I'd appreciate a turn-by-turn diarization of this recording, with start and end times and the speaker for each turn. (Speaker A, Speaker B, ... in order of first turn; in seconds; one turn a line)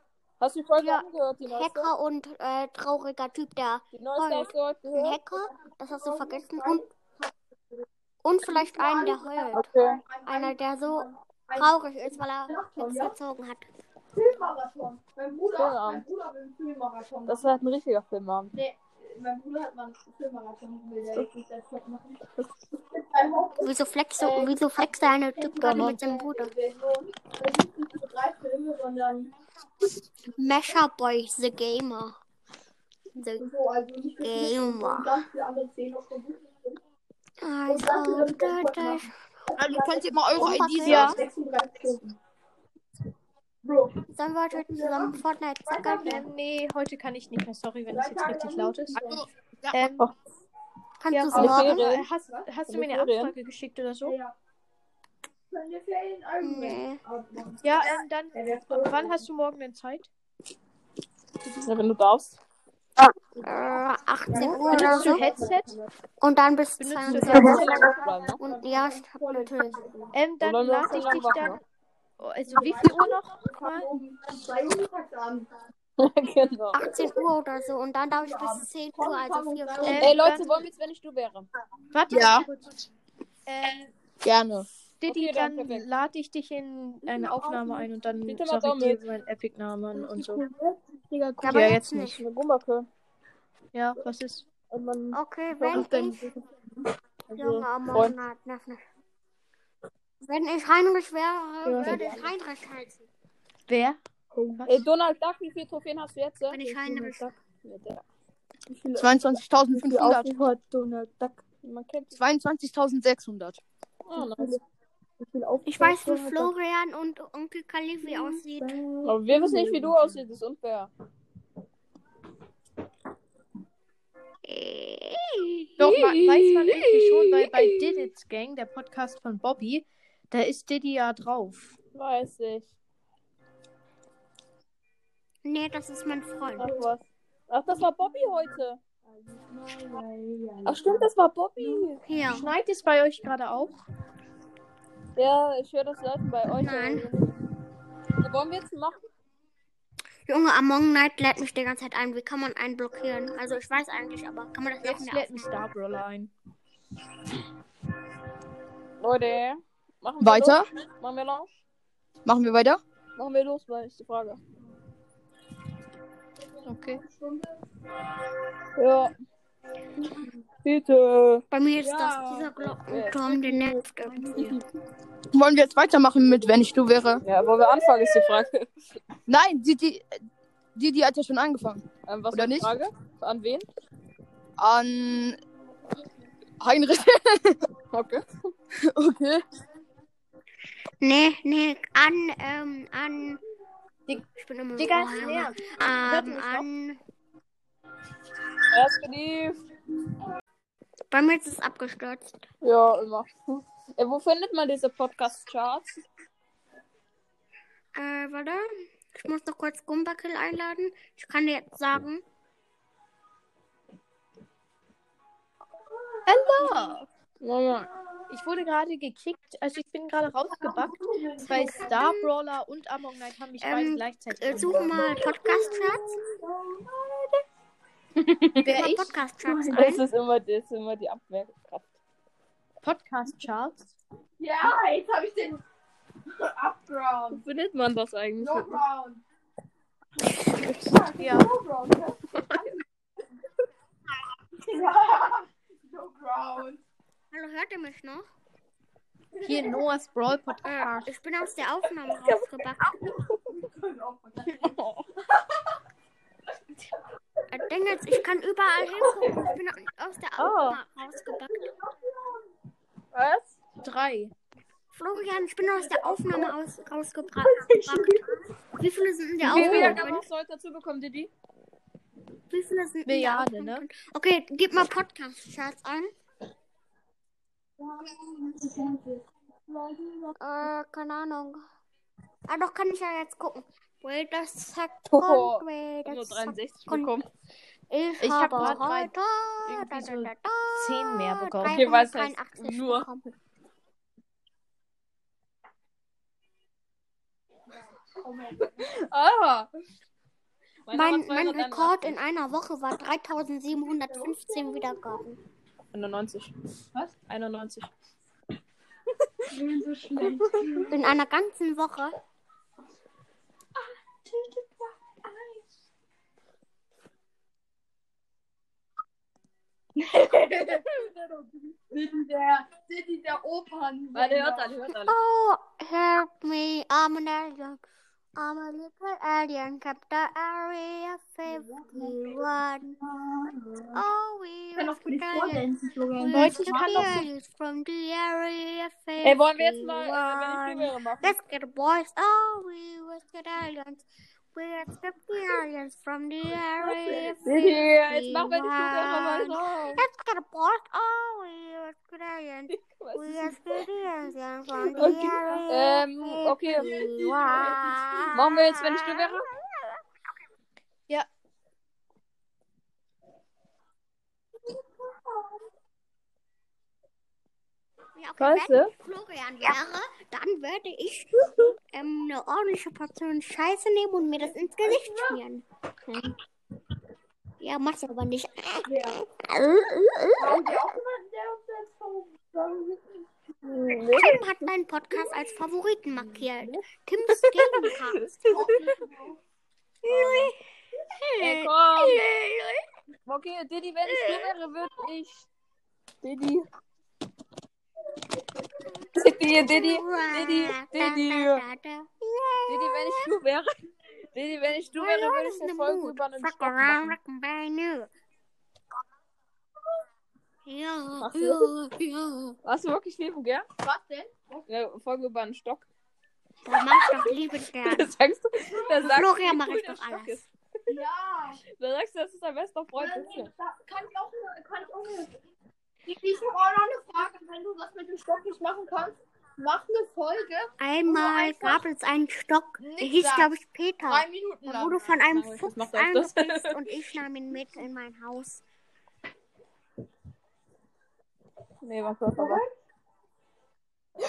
Speaker A: 0.4-1.9
Speaker B: 0.8-6.8
Speaker A: 3.9-5.2
Speaker C: 6.0-7.8
Speaker B: 8.2-9.7
Speaker C: 8.5-11.7
Speaker A: 9.5-10.0
Speaker B: 10.2-13.7
Speaker C: 12.5-13.1
Speaker C: 14.1-17.5
Speaker A: 15.5-16.1
Speaker A: 17.3-18.5
Speaker C: 18.5-22.2
Speaker A: 22.4-22.7
Speaker C: 22.9-24.7
Speaker B: 23.6-26.5
Speaker C: 25.3-29.3
Speaker A: 25.6-26.0
Speaker B: 30.4-32.1
Speaker B: 33.1-33.5
Speaker C: 33.4-36.8
Speaker B: 34.2-35.2
Speaker B: 37.4-39.1
Speaker C: 37.7-42.1
Speaker D: 39.5-41.2
Speaker B: 40.3-41.2
Speaker E: 40.8-41.2
Speaker C: 43.6-44.0
Speaker B: 44.1-46.2
Speaker C: 44.5-46.2
Speaker E: 46.0-49.2
Speaker C: 47.9-49.2
Speaker D: 48.9-49.8
Speaker E: 49.7-50.0
Speaker B: 51.0-51.9
Speaker E: 51.1-54.2
Speaker C: 51.3-51.7
Speaker A: 51.3-52.0
Speaker C: 52.3-52.6
Speaker A: 52.7-53.3
Speaker C: 54.0-54.3
Speaker C: 55.5-59.3
Speaker B: 56.4-57.0
Speaker E: 57.6-60.1
Speaker A: 61.6-62.4
Speaker B: 63.4-65.2
Speaker C: 64.3-65.9
Speaker E: 64.4-65.7
Speaker B: 66.2-69.9
Speaker E: 66.8-67.8
Speaker A: 67.0-68.4
Speaker C: 67.3-70.1
Speaker E: 70.1-71.6
Speaker A: 70.4-71.6
Speaker C: 70.9-71.4
Speaker E: 72.2-74.0
Speaker C: 72.5-75.5
Speaker A: 76.0-76.8
Speaker B: 76.7-80.2
Speaker C: 78.2-80.1
Speaker E: 79.8-80.6
Speaker A: 79.9-81.5
Speaker E: 81.9-82.8
Speaker D: 82.1-82.5
Speaker E: 83.5-83.9
Speaker D: 84.2-84.7
Speaker E: 85.0-90.4
Speaker A: 85.0-85.9
Speaker C: 87.0-88.1
Speaker A: 88.2-89.0
Speaker C: 89.9-91.3
Speaker E: 91.1-91.9
Speaker B: 91.4-92.2
Speaker A: 91.5-92.9
Speaker E: 93.7-94.5
Speaker A: 94.7-95.2
Speaker B: 95.1-96.3
Speaker E: 95.6-96.5
Speaker A: 97.3-98.2
Speaker B: 97.3-98.8
Speaker B: 100.2-103.1
Speaker E: 101.6-102.1
Speaker A: 101.8-102.3
Speaker E: 103.7-104.8
Speaker C: 104.4-104.6
Speaker A: 104.7-108.0
Speaker B: 106.5-107.3
Speaker D: 109.0-110.3
Speaker C: 109.8-110.3
Speaker E: 109.8-111.4
Speaker C: 110.9-111.3
Speaker A: 111.6-112.2
Speaker D: 112.1-113.6
Speaker A: 114.0-114.6
Speaker E: 114.2-114.5
Speaker E: 115.2-116.5
Speaker B: 115.7-118.8
Speaker E: 118.0-119.9
Speaker C: 118.9-119.6
Speaker A: 119.0-120.9
Speaker B: 124.5-125.9
Speaker E: 125.8-131.7
Speaker A: 125.8-128.0
Speaker A: 131.9-132.7
Speaker B: 135.4-136.7
Speaker A: 136.6-138.8
Speaker C: 136.6-136.9
Speaker C: 139.4-141.8
Speaker A: 140.6-142.0
Speaker B: 142.0-142.5
Speaker E: 142.3-143.7
Speaker A: 145.2-147.3
Speaker B: 146.5-147.1
Speaker A: 148.2-149.0
Speaker B: 150.3-155.7
Speaker E: 154.8-156.3
Speaker A: 159.0-161.5
Speaker D: 160.2-160.7
Speaker D: 162.2-162.8
Speaker A: 163.2-164.4
Speaker E: 166.6-167.4
Speaker C: 166.8-167.3
Speaker A: 168.8-169.1
Speaker A: 170.5-174.6
Speaker B: 171.5-174.6
Speaker D: 175.3-177.2
Speaker A: 177.2-179.0
Speaker D: 179.3-180.1
Speaker D: 180.8-182.7
Speaker A: 182.1-183.7
Speaker D: 184.6-185.4
Speaker D: 186.6-187.6
Speaker A: 187.9-188.3
Speaker D: 188.9-189.4
Speaker B: 191.0-193.4
Speaker B: 194.3-197.0
Speaker E: 194.8-196.6
Speaker A: 198.7-199.6
Speaker B: 201.1-202.4
Speaker A: 202.6-206.0
Speaker B: 207.9-212.2
Speaker C: 216.2-217.0
Speaker E: 216.2-217.1
Speaker A: 217.4-217.9
Speaker E: 218.3-225.8
Speaker C: 220.5-222.0
Speaker B: 221.4-222.3
Speaker B: 223.6-226.1
Speaker D: 224.6-224.9
Speaker C: 225.0-227.3
Speaker A: 228.2-228.6
Speaker E: 228.6-229.1
Speaker B: 228.7-230.0
Speaker A: 229.4-231.9
Speaker E: 232.8-234.0
Speaker C: 234.4-235.6
Speaker C: 236.3-237.4
Speaker A: 237.3-238.8
Speaker C: 238.4-239.2
Speaker A: 240.5-240.8
Speaker C: 240.9-242.8
Speaker E: 241.2-241.5
Speaker C: 244.5-246.8
Speaker B: 247.3-248.2
Speaker E: 249.4-251.1
Speaker C: 249.4-249.8
Speaker B: 250.6-253.0
Speaker A: 252.2-252.4
Speaker C: 253.0-254.7
Speaker A: 254.5-255.1
Speaker B: 257.5-261.7
Speaker A: 260.4-260.8
Speaker A: 263.1-263.6
Speaker E: 263.8-264.3
Speaker B: 264.9-270.2
Speaker E: 266.1-266.4
Speaker A: 269.4-271.3
Speaker E: 269.5-270.0
Speaker B: 272.5-276.1
Speaker E: 273.1-273.9
Speaker E: 277.8-279.2
Speaker E: 279.8-280.2
Speaker B: 280.4-281.6
Speaker B: 282.5-287.1
Speaker A: 285.1-287.2
Speaker B: 287.9-293.2
Speaker E: 288.2-289.1
Speaker E: 289.6-291.8
Speaker A: 291.6-293.1
Speaker C: 298.2-298.6
Speaker E: 298.2-298.5
Speaker A: 298.6-299.7
Speaker A: 300.9-302.2
Speaker B: 300.9-305.4
Speaker E: 304.3-305.0
Speaker A: 305.9-306.5
Speaker A: 307.3-307.9
Speaker E: 309.5-311.1
Speaker C: 310.1-310.9
Speaker B: 310.9-312.2
Speaker C: 314.2-315.6
Speaker C: 320.0-324.7
Speaker E: 320.6-321.0
Speaker E: 322.8-324.0
Speaker A: 324.1-325.1
Speaker B: 325.0-327.8
Speaker B: 328.4-332.9
Speaker C: 331.6-332.4
Speaker C: 332.9-334.0
Speaker B: 333.9-335.6
Speaker C: 334.8-337.0
Speaker B: 336.2-360.0
Speaker E: 336.2-337.2
Speaker A: 339.2-341.4
Speaker E: 346.9-347.3
Speaker C: 346.9-347.3
Speaker A: 347.4-350.0
Speaker A: 352.7-353.8
Speaker E: 354.9-355.1
Speaker A: 354.9-356.9
Speaker E: 356.9-358.2
Speaker A: 358.3-359.4
Speaker B: 368.1-376.3
Speaker A: 368.4-368.9
Speaker C: 374.8-375.4
Speaker B: 377.6-380.8
Speaker C: 378.8-379.2
Speaker C: 380.4-383.2
Speaker A: 383.6-384.4
Speaker B: 384.1-388.2
Speaker A: 386.1-386.5
Speaker A: 387.3-388.9
Speaker C: 388.5-389.4
Speaker B: 390.1-390.5
Speaker A: 390.1-390.5
Speaker B: 391.1-392.8
Speaker A: 391.4-392.2
Speaker A: 393.2-395.5
Speaker B: 394.0-394.5
Speaker A: 396.2-396.7
Speaker A: 399.1-401.6
Speaker B: 399.4-403.3
Speaker A: 402.7-407.2
Speaker B: 405.0-408.1
Speaker B: 410.6-412.6
Speaker A: 411.2-411.7
Speaker A: 412.6-413.6
Speaker E: 413.8-414.2
Speaker C: 413.8-414.6
Speaker A: 414.7-415.9
Speaker B: 416.6-418.1
Speaker A: 416.7-417.3
Speaker A: 417.8-420.9
Speaker B: 418.9-420.4
Speaker C: 420.9-421.6
Speaker A: 421.7-423.5
Speaker C: 423.0-425.3
Speaker C: 426.1-430.7
Speaker B: 430.8-438.6
Speaker E: 431.1-431.5
Speaker C: 431.5-431.8
Speaker E: 432.8-433.4
Speaker C: 433.0-433.5
Speaker C: 434.1-434.7
Speaker E: 434.7-434.9
Speaker A: 435.2-436.9
Speaker A: 441.8-442.6
Speaker C: 442.4-442.7